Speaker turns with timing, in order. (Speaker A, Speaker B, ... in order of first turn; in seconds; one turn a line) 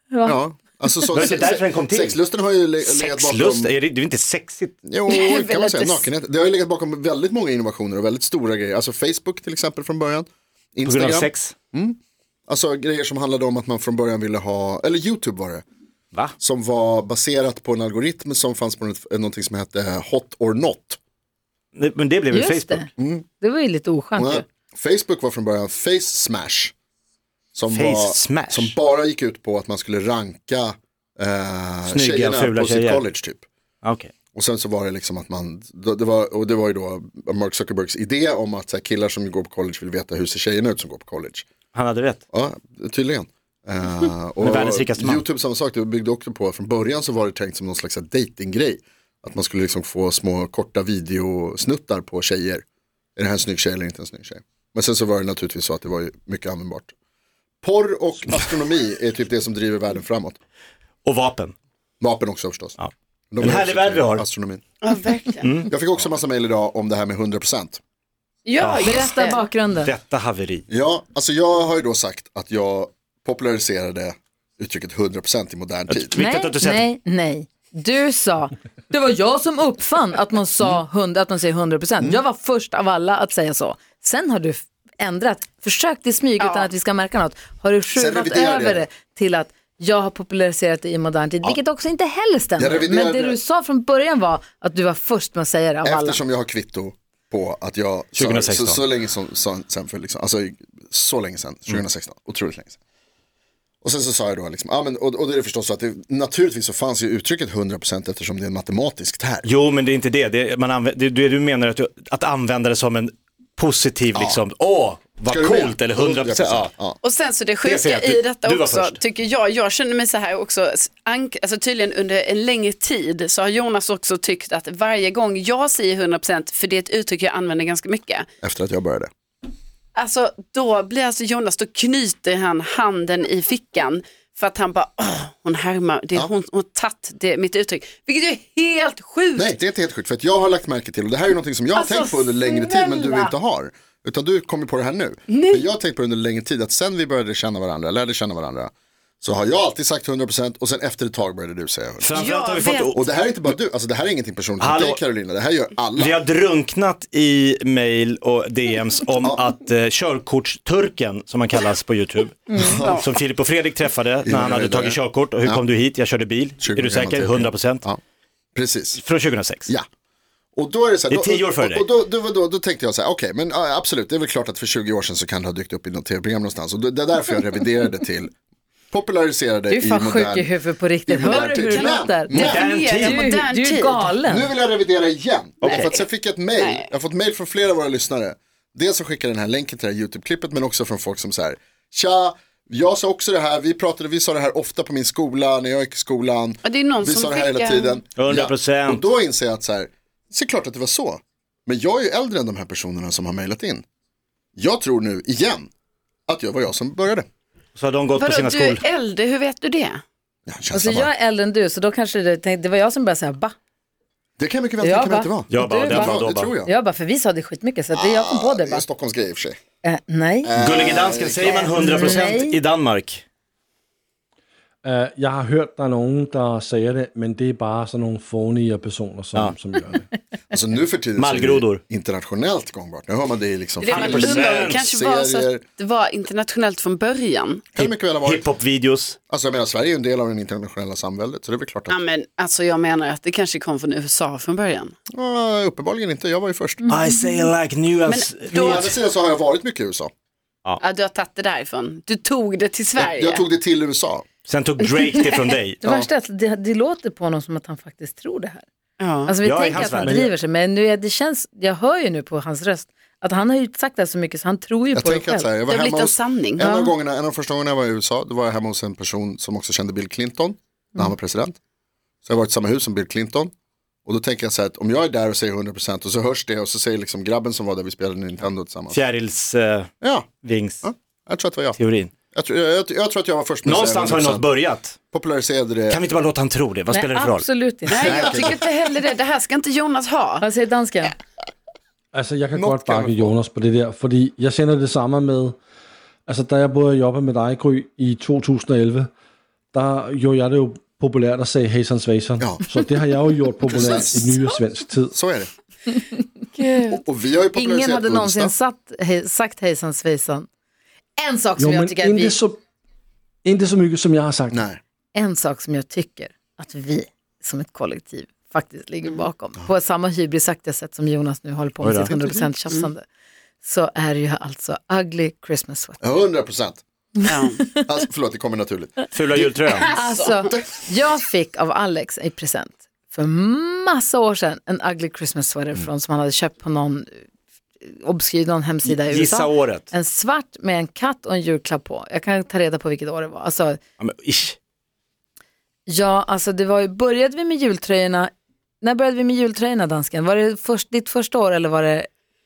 Speaker A: 0.1-0.4
Speaker B: 0.2-3.7
Speaker C: 1.1-2.2
Speaker C: 2.8-4.8
Speaker B: 4.8-15.6
Speaker D: 5.1-6.1
Speaker C: 10.8-11.5
Speaker B: 16.4-21.0
Speaker C: 21.8-22.9
Speaker A: 22.3-24.4
Speaker B: 23.0-23.2
Speaker B: 24.1-26.7
Speaker B: 27.6-33.4
Speaker C: 27.7-28.8
Speaker C: 31.9-33.0
Speaker C: 33.8-34.1
Speaker B: 34.3-41.5
Speaker C: 41.7-42.2
Speaker B: 42.3-52.6
Speaker C: 44.4-45.2
Speaker B: 53.2-56.9
Speaker B: 57.6-60.4
Speaker C: 61.0-61.5
Speaker B: 62.0-62.8
Speaker C: 62.8-64.3
Speaker B: 63.3-64.6
Speaker D: 64.8-65.7
Speaker C: 65.4-65.7
Speaker B: 65.7-67.8
Speaker D: 68.5-69.4
Speaker C: 68.6-69.1
Speaker A: 68.8-69.9
Speaker C: 69.8-70.7
Speaker B: 70.7-76.2
Speaker C: 75.9-76.9
Speaker A: 76.2-96.2
Speaker D: 86.4-86.7
Speaker B: 88.0-88.9
Speaker B: 92.6-93.4
Speaker B: 95.8-102.8
Speaker C: 98.2-98.8
Speaker B: 103.8-109.5
Speaker C: 109.5-116.7
Speaker B: 114.2-114.4
Speaker B: 115.2-117.0
Speaker D: 117.0-128.3
Speaker C: 117.7-119.0
Speaker B: 128.4-129.1
Speaker D: 130.0-139.5
Speaker B: 139.3-152.2
Speaker D: 141.8-143.3
Speaker D: 145.3-145.7
Speaker C: 152.0-153.5
Speaker D: 152.2-152.9
Speaker B: 152.9-156.2
Speaker C: 154.6-155.0
Speaker C: 156.0-167.9
Speaker B: 162.6-163.0
Speaker B: 164.2-165.6
Speaker B: 166.6-168.0
Speaker B: 168.6-169.0
Speaker C: 169.0-169.7
Speaker B: 170.6-178.3
Speaker C: 171.1-171.9
Speaker B: 178.9-180.5
Speaker A: 179.7-182.3
Speaker B: 181.1-182.7
Speaker D: 181.2-184.1
Speaker C: 182.3-183.3
Speaker A: 183.0-184.5
Speaker B: 184.2-203.8
Speaker D: 185.6-186.1
Speaker D: 186.6-186.9
Speaker D: 196.7-198.0
Speaker C: 198.2-199.1
Speaker B: 204.6-205.7
Speaker B: 206.3-207.3
Speaker C: 207.8-208.8
Speaker D: 208.2-210.0
Speaker B: 210.5-211.1
Speaker A: 210.7-213.6
Speaker B: 214.4-216.7
Speaker A: 214.8-218.8
Speaker C: 215.5-216.5
Speaker B: 217.9-219.6
Speaker A: 219.8-220.6
Speaker B: 220.4-222.2
Speaker C: 220.6-223.2
Speaker A: 221.5-222.6
Speaker E: 224.8-230.1
Speaker B: 230.5-235.6
Speaker C: 231.2-231.8
Speaker D: 233.8-237.7
Speaker C: 233.9-234.8
Speaker B: 237.7-238.4
Speaker C: 237.8-239.2
Speaker B: 239.3-242.0
Speaker D: 241.9-244.9
Speaker B: 245.1-246.8
Speaker A: 246.9-247.2
Speaker C: 246.9-248.9
Speaker D: 248.1-248.9
Speaker B: 248.6-250.1
Speaker D: 250.8-253.5
Speaker B: 253.0-254.2
Speaker C: 254.5-255.8
Speaker B: 255.8-256.1
Speaker A: 255.8-258.6
Speaker D: 259.0-259.4
Speaker A: 259.3-265.5
Speaker C: 259.4-260.3
Speaker E: 259.9-260.3
Speaker B: 264.9-271.6
Speaker D: 265.7-266.7
Speaker A: 266.6-266.9
Speaker B: 272.2-273.5
Speaker B: 274.1-279.0
Speaker C: 278.9-279.9
Speaker B: 280.0-280.3
Speaker C: 280.4-280.8
Speaker B: 280.8-281.8
Speaker C: 281.8-282.1
Speaker B: 282.3-284.6
Speaker C: 283.6-285.0
Speaker B: 285.1-286.0
Speaker C: 285.9-287.5
Speaker A: 286.9-288.0
Speaker D: 287.9-290.4
Speaker B: 288.0-288.6
Speaker C: 288.0-288.5
Speaker A: 290.4-291.1
Speaker E: 292.1-295.6
Speaker B: 292.5-293.4
Speaker E: 296.3-299.1
Speaker E: 299.7-305.1
Speaker B: 302.4-302.7
Speaker B: 303.7-304.3
Speaker B: 305.1-305.5
Speaker D: 306.6-307.0
Speaker B: 306.9-308.5
Speaker A: 307.5-310.5
Speaker A: 311.2-312.4
Speaker E: 311.6-312.6
Speaker E: 313.4-314.6
Speaker B: 314.5-314.8
Speaker A: 315.1-323.1
Speaker C: 321.8-322.1
Speaker B: 322.1-322.5
Speaker A: 323.6-326.0
Speaker B: 326.0-326.8
Speaker A: 327.2-327.9
Speaker D: 327.3-327.6
Speaker B: 327.9-329.6
Speaker C: 329.1-329.9
Speaker D: 329.7-330.3
Speaker A: 329.9-337.2
Speaker A: 337.8-343.8
Speaker C: 338.9-339.9
Speaker C: 344.0-344.6
Speaker A: 345.9-352.1